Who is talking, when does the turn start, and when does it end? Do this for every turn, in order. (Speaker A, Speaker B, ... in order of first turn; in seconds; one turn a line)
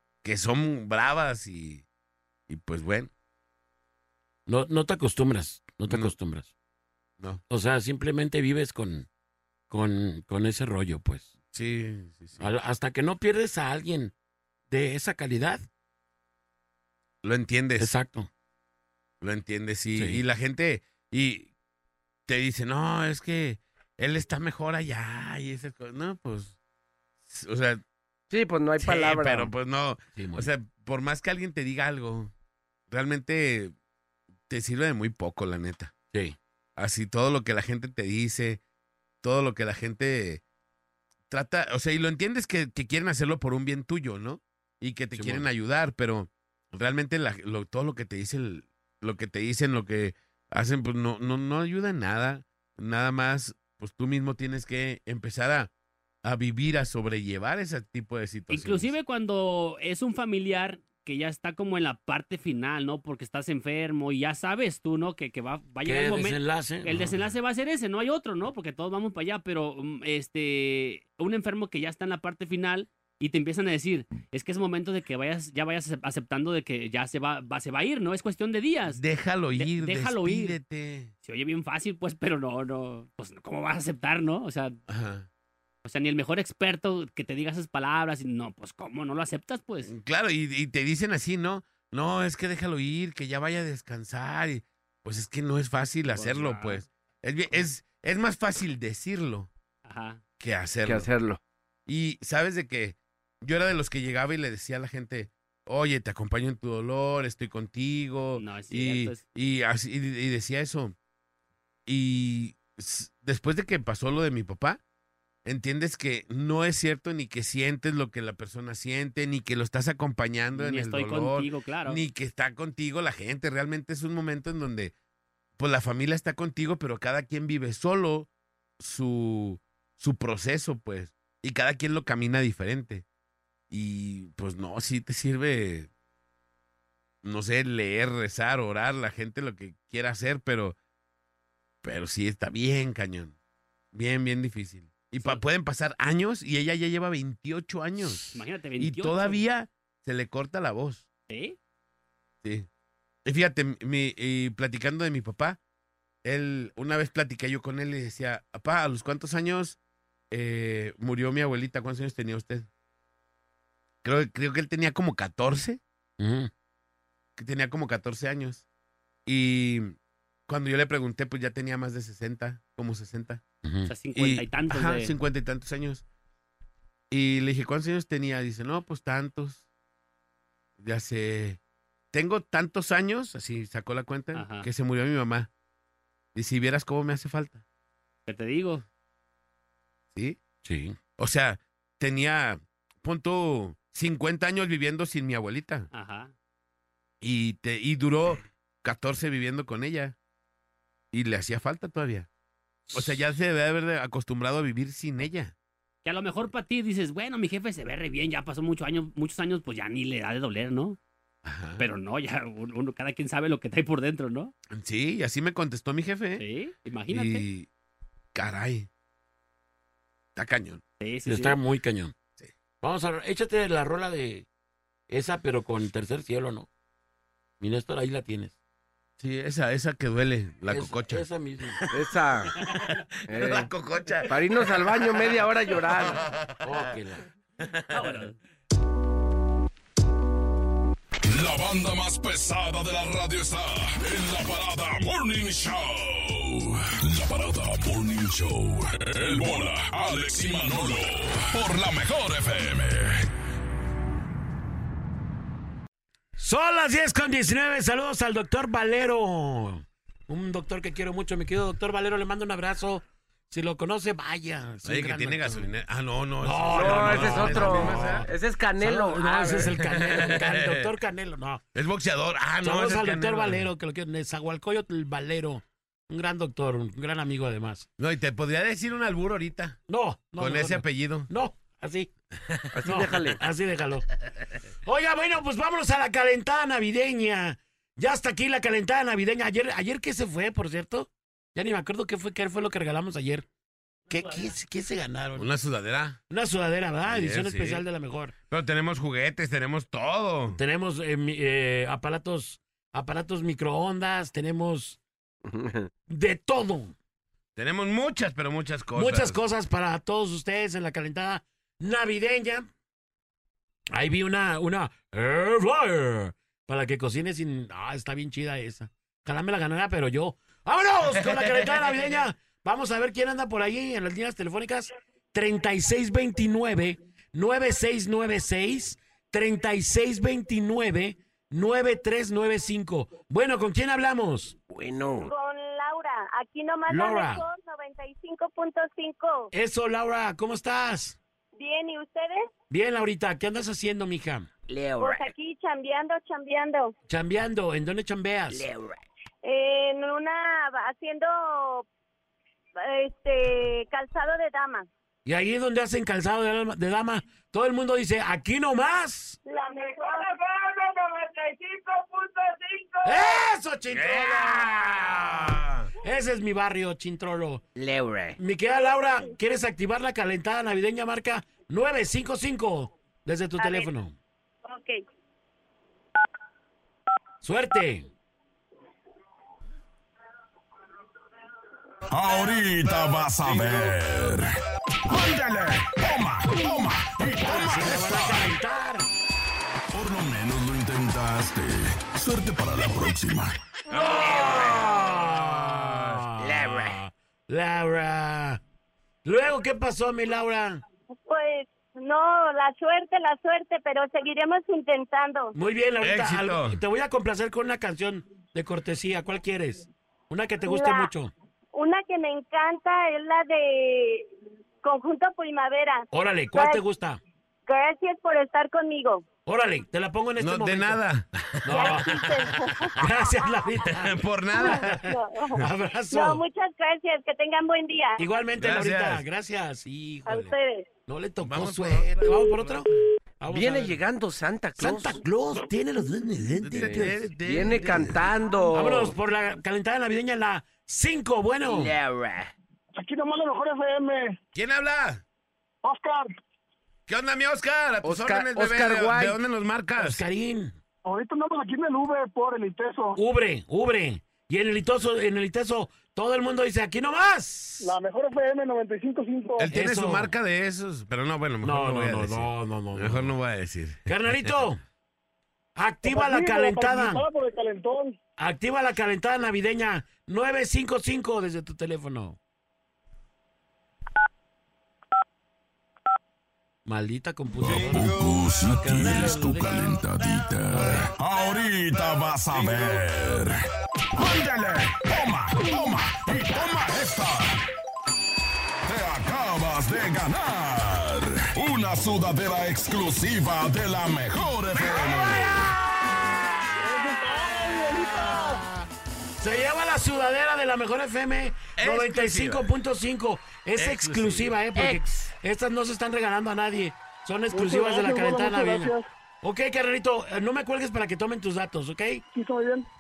Speaker A: 0.2-1.9
Speaker A: 2.5-3.1
Speaker B: 4.5-6.5
Speaker A: 5.9-6.1
Speaker B: 7.5-9.1
Speaker B: 9.7-11.3
Speaker A: 11.5-12.5
Speaker B: 12.4-14.1
Speaker B: 14.7-15.6
Speaker A: 17.2-17.9
Speaker B: 17.8-18.3
Speaker A: 19.2-21.5
Speaker B: 19.9-20.2
Speaker A: 22.3-26.6
Speaker A: 27.3-27.8
Speaker C: 28.3-29.5
Speaker A: 28.8-32.3
Speaker B: 30.1-30.5
Speaker A: 32.9-33.7
Speaker A: 34.5-36.0
Speaker B: 36.1-36.4
Speaker A: 36.8-38.6
Speaker A: 39.2-40.4
Speaker A: 41.3-55.7
Speaker B: 45.1-45.5
Speaker A: 56.2-58.9
Speaker D: 58.5-79.0
Speaker B: 65.8-67.2
Speaker A: 78.8-81.1
Speaker D: 79.5-80.6
Speaker D: 81.2-84.8
Speaker A: 84.9-85.3
Speaker D: 85.8-89.9
Speaker A: 89.8-99.5
Speaker D: 96.1-96.8
Speaker D: 99.8-100.2
Speaker A: 100.4-101.1
Speaker C: 100.8-101.4
Speaker A: 101.9-111.0
Speaker D: 108.4-109.2
Speaker A: 111.9-114.8
Speaker A: 115.5-124.9
Speaker D: 120.5-122.0
Speaker A: 125.6-128.3
Speaker A: 128.8-133.1
Speaker A: 133.7-135.9
Speaker A: 137.2-140.8
Speaker A: 141.8-143.3
Speaker A: 143.9-151.1
Speaker D: 145.2-145.4
Speaker D: 148.3-149.4
Speaker D: 151.3-151.6
Speaker A: 152.4-152.7
Speaker A: 153.2-155.6
Speaker A: 156.2-159.8
Speaker A: 160.3-162.7
Speaker A: 164.0-165.8
Speaker B: 166.2-166.5
Speaker A: 167.4-168.7
Speaker A: 169.3-170.0
Speaker A: 170.5-173.4
Speaker B: 173.6-173.9
Speaker D: 173.9-175.1
Speaker A: 174.2-176.0
Speaker A: 177.1-179.6
Speaker A: 180.8-181.6
Speaker A: 182.1-185.5
Speaker D: 184.3-184.7
Speaker A: 186.3-187.6
Speaker D: 188.3-188.8
Speaker A: 190.2-190.4
Speaker B: 190.6-191.0
Speaker A: 191.2-195.9
Speaker D: 195.9-196.3
Speaker A: 197.2-200.2
Speaker A: 201.1-202.3
Speaker A: 202.9-205.5
Speaker D: 206.0-211.0
Speaker A: 211.4-211.8
Speaker D: 211.8-214.5
Speaker A: 214.7-216.4
Speaker D: 216.4-217.5
Speaker A: 217.1-217.7
Speaker A: 218.3-218.9
Speaker A: 220.3-220.8
Speaker D: 221.0-221.6
Speaker B: 221.3-222.1
Speaker B: 222.8-224.5
Speaker B: 225.1-226.7
Speaker B: 227.6-228.5
Speaker A: 229.2-232.1
Speaker B: 230.7-231.8
Speaker C: 231.9-232.6
Speaker A: 232.6-236.9
Speaker C: 233.3-233.7
Speaker C: 234.3-236.2
Speaker B: 236.6-237.2
Speaker A: 237.6-238.2
Speaker D: 237.9-238.4
Speaker E: 241.3-253.3
Speaker B: 256.4-265.7
Speaker A: 264.9-268.3
Speaker B: 266.4-271.6
Speaker C: 266.7-270.3
Speaker A: 269.9-270.9
Speaker A: 271.8-273.7
Speaker B: 272.6-277.9
Speaker A: 278.0-279.8
Speaker B: 279.9-282.1
Speaker A: 280.4-281.3
Speaker C: 282.7-283.4
Speaker B: 282.8-284.1
Speaker B: 284.9-293.5
Speaker B: 294.1-295.5
Speaker A: 295.4-296.2
Speaker B: 296.3-298.4
Speaker A: 297.1-297.8
Speaker A: 298.5-300.6
Speaker B: 300.5-305.0
Speaker C: 305.4-305.9
Speaker B: 306.1-306.9
Speaker A: 307.6-309.4
Speaker B: 308.9-312.7
Speaker B: 313.9-334.6
Speaker C: 334.7-335.3
Speaker F: 335.2-339.5
Speaker B: 336.9-337.4
Speaker B: 339.5-341.2
Speaker F: 341.6-342.5
Speaker B: 342.7-344.5
Speaker C: 344.7-345.3
Speaker F: 345.0-346.9
Speaker B: 347.1-348.7
Speaker C: 348.5-349.0
Speaker F: 349.4-351.9
Speaker F: 352.8-354.9
Speaker B: 355.3-359.4
Speaker F: 359.5-362.3
Speaker B: 363.0-367.6
Speaker A: 363.9-365.9
Speaker C: 367.8-368.4
Speaker B: 368.4-374.2
Speaker F: 373.6-373.9
Speaker F: 374.6-375.0
Speaker B: 377.4-378.1
Speaker E: 382.1-388.6
Speaker B: 387.4-389.1
Speaker E: 389.9-393.6
Speaker B: 393.9-398.6
Speaker C: 393.9-395.0
Speaker A: 395.9-396.2
Speaker C: 396.4-397.0
Speaker B: 399.2-400.8
Speaker F: 401.2-405.6
Speaker B: 405.6-411.3
Speaker A: 406.0-406.8
Speaker F: 410.7-411.1
Speaker F: 411.7-414.3
Speaker F: 414.8-416.8
Speaker B: 416.1-417.2
Speaker F: 417.7-419.3
Speaker B: 419.4-421.0
Speaker A: 420.4-423.0
Speaker B: 421.6-422.4
Speaker F: 421.7-423.8
Speaker B: 423.0-426.4
Speaker A: 423.8-425.0
Speaker F: 424.5-428.2
Speaker B: 428.2-432.9
Speaker A: 428.6-429.2
Speaker F: 430.3-430.9
Speaker A: 431.4-433.0
Speaker B: 433.4-434.0
Speaker C: 433.5-435.2
Speaker B: 434.8-437.3
Speaker A: 436.6-438.2
Speaker C: 436.8-439.2
Speaker B: 438.7-442.0
Speaker C: 441.6-442.5
Speaker G: 443.0-444.4
Speaker A: 444.6-445.2
Speaker G: 445.9-446.2
Speaker A: 447.1-450.2
Speaker C: 448.0-449.4
Speaker B: 450.0-450.8
Speaker G: 451.1-453.2
Speaker B: 453.2-457.9
Speaker G: 457.8-459.7
Speaker A: 459.6-464.6
Speaker B: 459.7-460.3
Speaker B: 461.6-463.3
Speaker B: 464.1-464.8
Speaker B: 465.8-467.3
Speaker G: 466.1-468.2
Speaker B: 468.4-472.4
Speaker B: 476.9-480.0
Speaker E: 477.6-487.6
Speaker B: 480.7-481.1
Speaker E: 488.9-495.7
Speaker G: 496.8-498.4
Speaker B: 497.7-498.6
Speaker B: 499.4-512.2
Speaker A: 501.8-502.7
Speaker A: 503.8-504.6
Speaker C: 504.8-505.1
Speaker G: 507.5-509.0
Speaker G: 512.4-512.9